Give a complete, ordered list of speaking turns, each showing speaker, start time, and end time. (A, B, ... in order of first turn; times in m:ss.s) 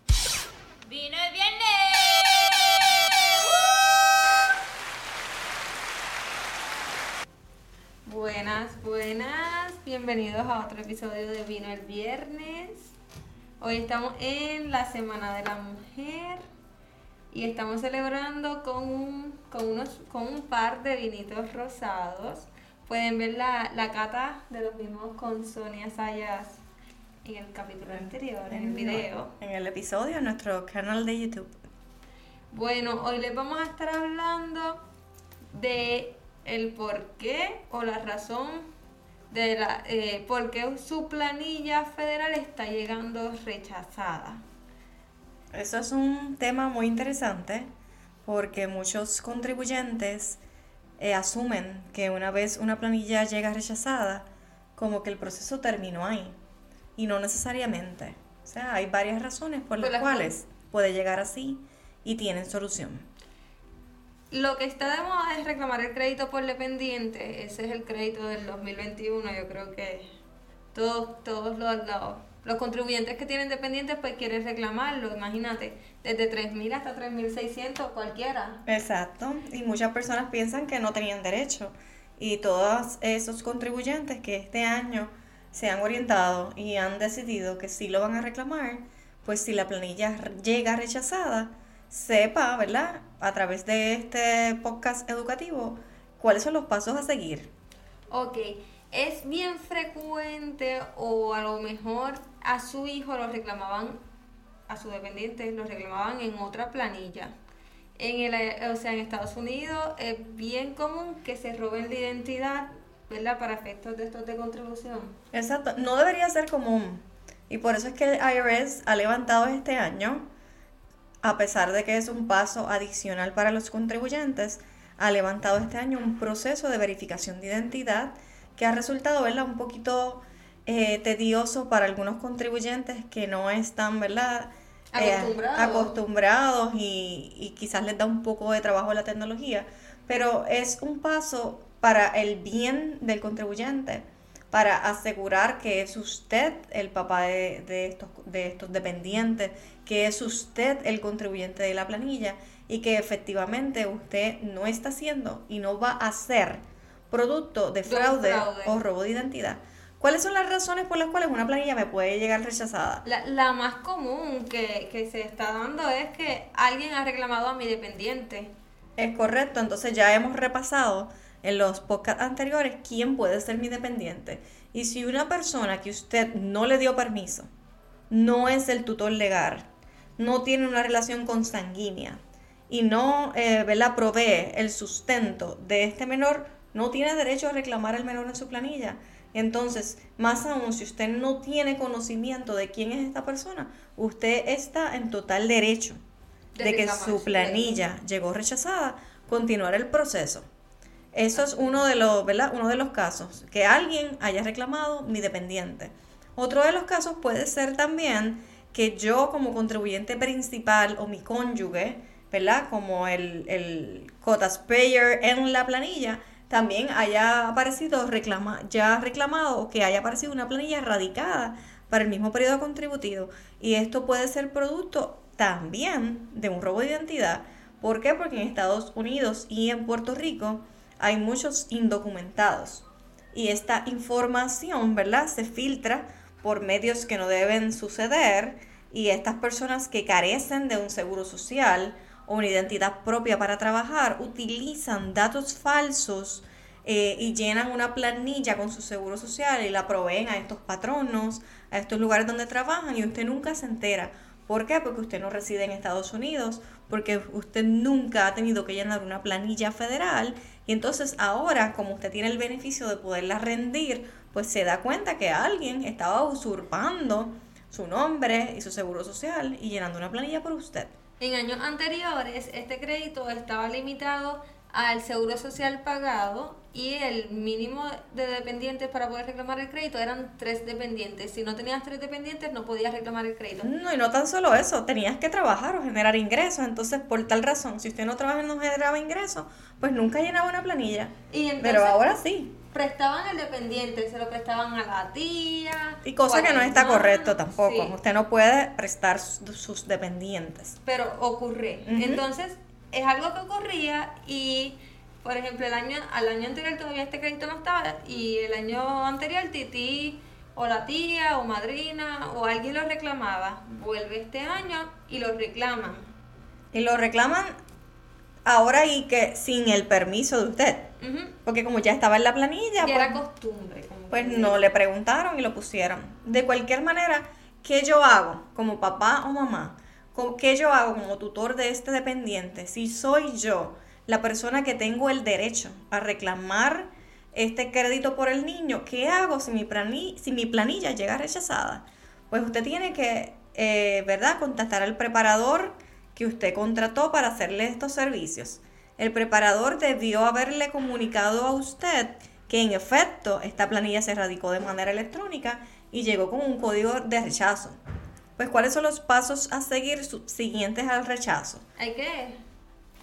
0:00.8-0:04.3 A
0:08.0-0:12.9 B
0:13.6-0:16.4 B
0:17.3-0:26.6 B
0:27.2-0:29.4 B
0:28.0-0:31.5 C
0:32.5-0:34.8 B
0:35.5-0:38.6 B
0:39.3-0:44.4 B
0:45.5-0:47.7 C
0:48.2-0:50.4 C
0:51.0-0:56.4 C
0:57.0-1:03.1 C
0:59.8-1:00.3 B
1:04.3-1:10.1 B
1:10.7-1:18.6 B
1:18.6-1:37.5 C
1:38.1-1:44.0 B
1:44.7-1:47.3 B
1:48.0-1:55.2 B
1:55.3-2:00.2 C
2:01.2-2:43.0 C
2:14.9-2:16.0 B
2:37.8-2:38.8 B
2:43.0-2:48.5 B
2:49.0-2:57.5 C
2:58.1-2:59.7 C
3:00.2-3:16.0 C
3:16.5-3:17.8 B
3:16.6-3:20.4 C
3:21.1-4:30.9 C
3:21.3-3:21.8 B
4:31.2-4:43.7 B
4:43.6-4:52.6 C
4:51.3-4:58.0 B
4:56.0-5:00.8 C
5:00.8-5:16.0 B
5:01.8-5:02.2 C
5:16.7-5:17.5 C
5:18.4-5:20.9 C
5:21.0-5:21.4 B
5:21.4-5:23.2 C
5:22.8-5:24.7 B
5:24.1-5:57.8 C
5:58.4-6:01.6 C
6:01.8-6:02.4 B